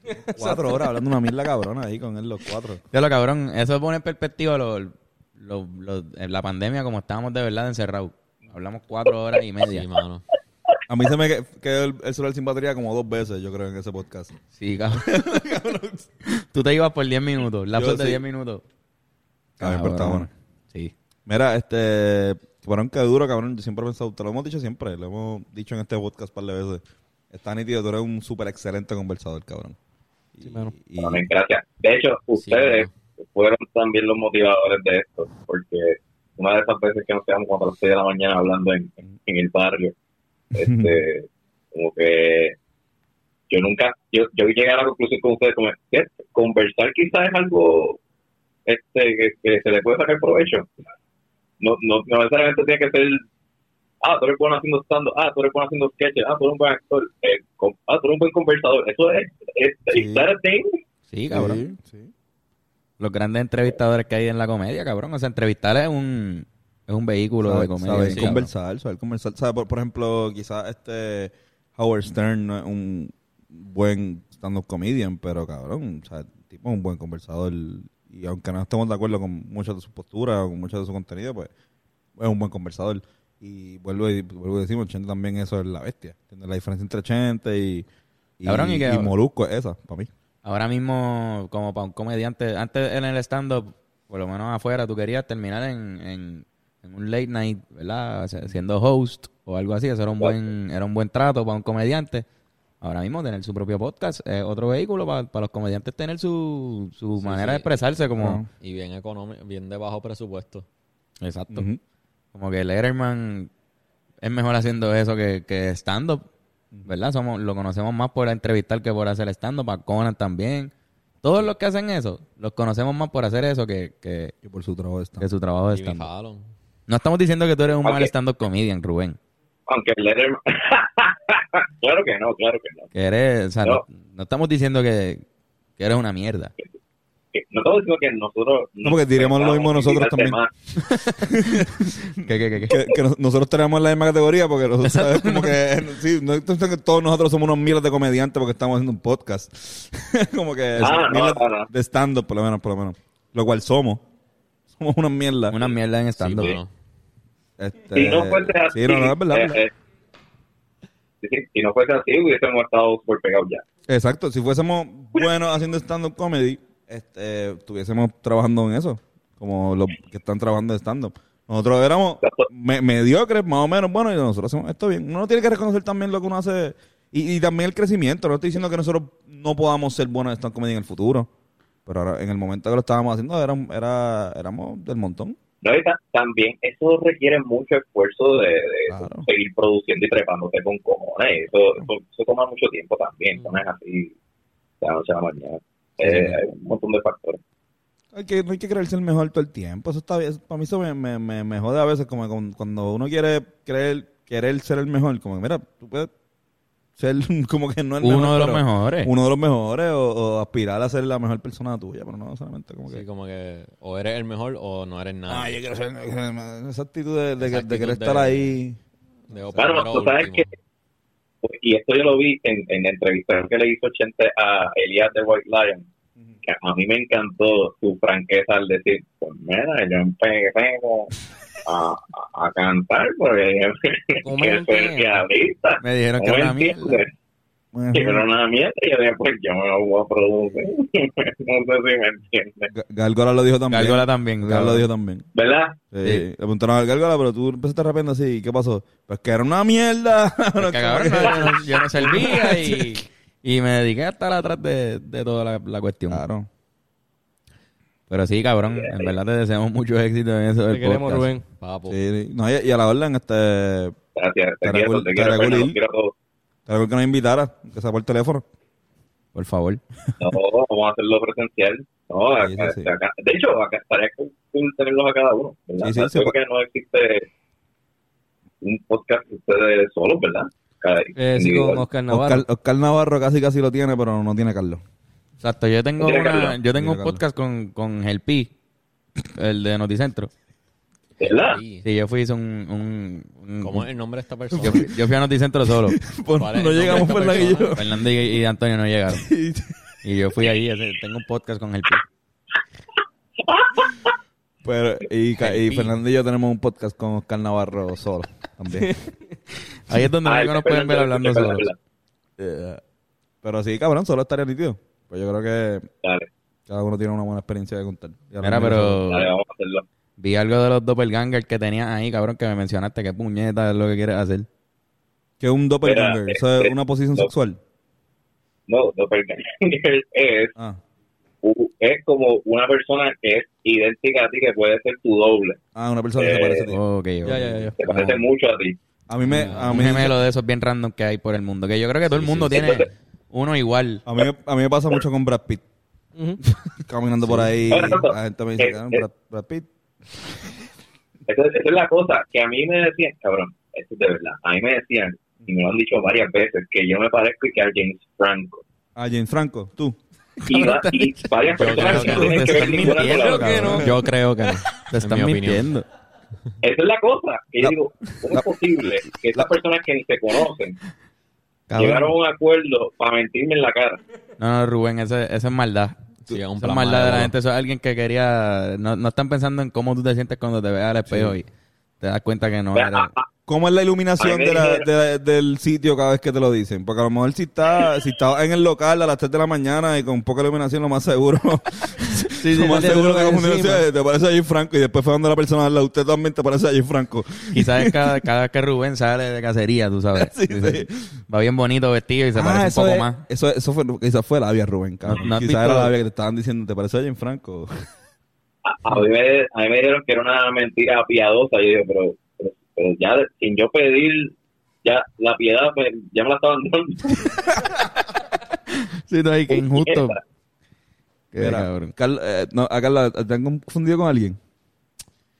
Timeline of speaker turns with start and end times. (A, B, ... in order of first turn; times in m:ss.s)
0:00.3-0:00.8 A
0:00.4-0:02.8 B
0:02.9-0:09.8 C
0:09.6-0:10.2 D
0:10.9-0:14.4 B
0:14.6-0:15.4 C
0:14.9-0:16.1 B
0:16.3-0:18.6 C
0:17.7-0:18.2 B
0:19.6-0:20.9 C
0:19.6-0:20.3 B
0:21.3-0:29.8 B
0:30.3-0:31.2 B
0:30.4-0:30.7 A
0:31.0-0:39.9 E
0:32.3-0:32.9 D
0:40.5-0:42.5 E
0:40.6-0:41.0 B
0:43.5-0:48.0 E
0:48.6-0:50.7 E
0:51.6-0:53.2 E
0:54.0-1:00.8 E
0:59.9-1:00.3 B
1:01.1-1:01.6 C
1:01.3-1:02.1 B
1:03.0-1:08.5 C
1:07.4-1:21.5 B
1:22.2-1:27.8 B
1:28.4-1:30.1 B
1:28.4-1:29.1 C
1:30.4-1:42.2 C
1:42.8-1:48.4 C
1:47.2-1:47.9 D
1:48.2-1:48.5 B
1:48.6-1:50.6 D
1:51.2-1:51.7 C
1:51.5-1:51.8 B
1:52.3-1:53.5 C
1:54.2-1:56.2 C
1:56.8-2:00.7 C
2:01.2-2:04.3 C
2:04.4-2:05.3 B
2:05.2-2:06.1 C
2:05.7-2:06.5 D
2:06.9-2:09.2 C
2:07.8-2:08.1 E
2:09.7-2:12.9 E
2:12.9-2:15.2 C
2:15.8-2:16.5 C
2:17.3-2:20.5 E
2:18.8-2:20.4 B
2:20.9-2:21.3 C
2:21.3-2:21.9 B
2:22.2-2:22.8 C
2:22.6-2:34.0 B
2:24.8-2:25.6 C
2:30.8-2:31.7 E
2:34.7-2:35.6 B
2:35.5-2:36.6 C
2:36.2-2:36.7 D
2:37.6-2:39.6 B
2:37.9-2:39.7 E
2:41.2-2:43.6 E
2:43.9-3:01.3 B
2:52.2-2:52.5 E
3:01.8-3:05.4 B
3:05.6-3:14.1 E
3:08.9-3:09.3 B
3:14.8-3:17.4 E
3:16.0-3:16.4 B
3:18.1-3:26.1 B
3:27.0-3:33.0 B
3:28.0-3:29.1 C
3:32.8-3:35.6 D
3:35.3-3:38.8 B
3:37.4-3:38.4 D
3:39.3-3:40.5 D
3:39.6-3:40.5 E
3:41.4-3:45.9 E
3:46.4-3:51.1 E
3:51.6-3:57.1 E
3:54.2-3:55.2 A
3:55.8-3:57.0 C
3:57.7-3:58.2 B
3:57.9-4:02.7 E
4:02.7-4:05.2 B
4:03.7-4:04.8 C
4:05.3-4:05.8 E
4:05.9-4:12.7 B
4:10.6-4:16.2 C
4:12.1-4:12.4 A
4:16.1-4:16.5 B
4:18.1-4:21.3 C
4:18.6-4:19.2 E
4:20.7-4:21.4 A
4:21.6-4:22.0 D
4:21.9-4:24.0 B
4:24.1-4:26.1 E
4:24.6-4:25.8 B
4:26.7-4:28.4 B
4:29.3-4:29.8 C
4:30.2-4:37.2 E
4:32.4-4:32.9 B
4:35.8-4:36.3 B
4:38.6-4:41.8 E
4:41.2-4:42.4 A
4:42.1-4:44.8 B
4:45.4-4:48.5 C
4:46.0-4:46.6 E
4:46.7-4:47.2 B
4:49.3-4:50.3 C
4:51.2-4:51.6 E
4:51.2-4:51.8 D
4:51.8-4:53.9 C
4:53.6-4:55.0 D
4:54.6-4:54.9 B
4:54.6-4:56.0 C
4:55.8-4:57.9 B
4:56.4-4:57.8 D
4:57.7-4:59.3 C
4:59.1-4:59.8 B
5:00.0-5:02.0 C
5:03.4-5:04.1 E
5:04.6-5:09.0 B
5:05.4-5:05.9 D
5:09.9-5:11.7 C
5:10.2-5:11.8 E
5:12.4-5:12.8 B
5:13.4-5:15.9 B
5:16.0-5:16.3 E
5:16.7-5:19.0 B
5:18.4-5:19.3 C
5:19.0-5:19.8 E
5:20.2-5:24.5 C
5:25.4-5:27.6 B
5:25.8-5:27.3 E
5:28.7-5:30.5 E
5:31.4-5:35.6 E
5:35.7-5:36.8 B
5:36.2-5:36.7 E
5:36.7-5:38.2 C
5:37.2-5:37.8 A
5:37.8-5:38.8 E
5:39.1-5:40.2 B
5:39.3-5:39.9 D
5:39.3-5:44.0 C
5:42.1-5:42.7 D
5:42.5-5:42.9 E
5:44.0-5:45.6 B
5:46.6-5:49.7 B
5:47.7-5:49.0 E
5:51.3-5:58.6 E
5:59.0-6:00.0 B
6:00.4-6:03.7 E
6:00.5-6:01.1 B
6:01.5-6:02.8 D
6:01.6-6:03.9 C
6:01.7-6:02.6 B
6:02.9-6:03.9 A
6:03.7-6:05.7 D
6:03.7-6:03.9 B
6:04.8-6:05.8 C
6:06.6-6:10.8 E
6:07.6-6:08.4 B
6:11.7-6:12.1 B
6:11.7-6:14.0 E
6:14.4-6:16.0 C
6:16.2-6:17.3 D
6:16.6-6:21.5 C
6:22.0-6:23.1 C
6:22.7-6:23.3 E
6:23.5-6:38.2 B
6:24.2-6:24.8 E
6:32.4-6:33.8 A
6:37.5-6:43.2 C
6:40.1-6:41.1 B
6:42.3-6:47.7 B
6:45.0-6:45.9 C
6:48.6-6:57.3 E
6:58.7-7:00.2 C
6:59.5-7:00.2 E
7:01.3-7:01.9 C
7:01.4-7:04.4 B